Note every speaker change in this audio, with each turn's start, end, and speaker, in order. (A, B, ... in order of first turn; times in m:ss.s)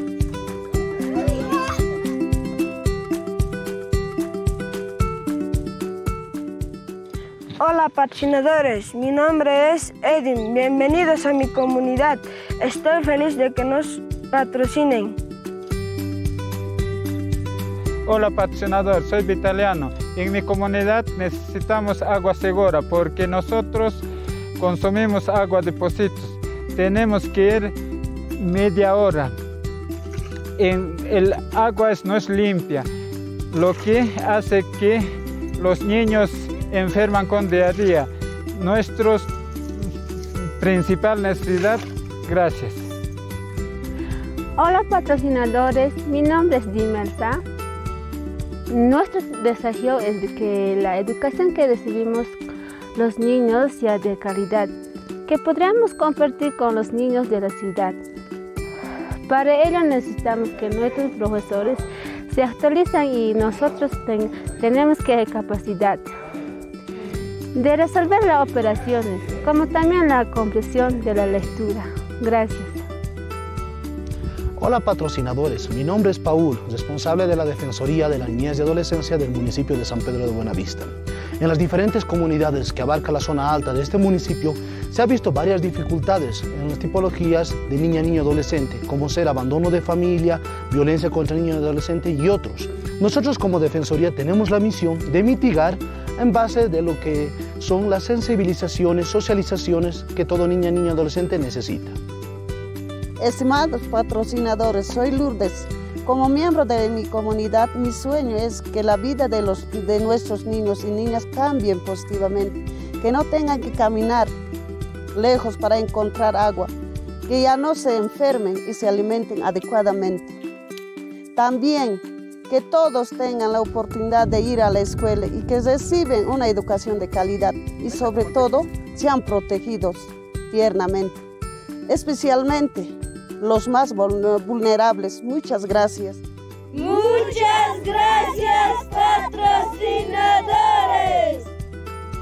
0:07.6-0:15.2 A
0:18.0-0:24.0 B
0:24.6-0:27.7 B
0:28.4-0:29.3 B
0:30.6-0:32.9 B
0:33.5-0:35.0 B
0:35.6-0:39.3 B
0:40.6-0:42.8 B
0:44.6-0:47.4 C
0:48.7-0:52.4 C
0:52.9-0:54.7 C
0:55.2-0:58.0 C
0:59.2-1:06.1 C
1:07.5-1:12.8 C
1:14.6-1:42.0 D
1:43.2-1:54.3 E
1:55.1-1:56.7 E
1:57.3-2:00.4 E
2:01.4-2:11.2 E
2:11.9-2:16.2 E
2:17.3-2:20.6 F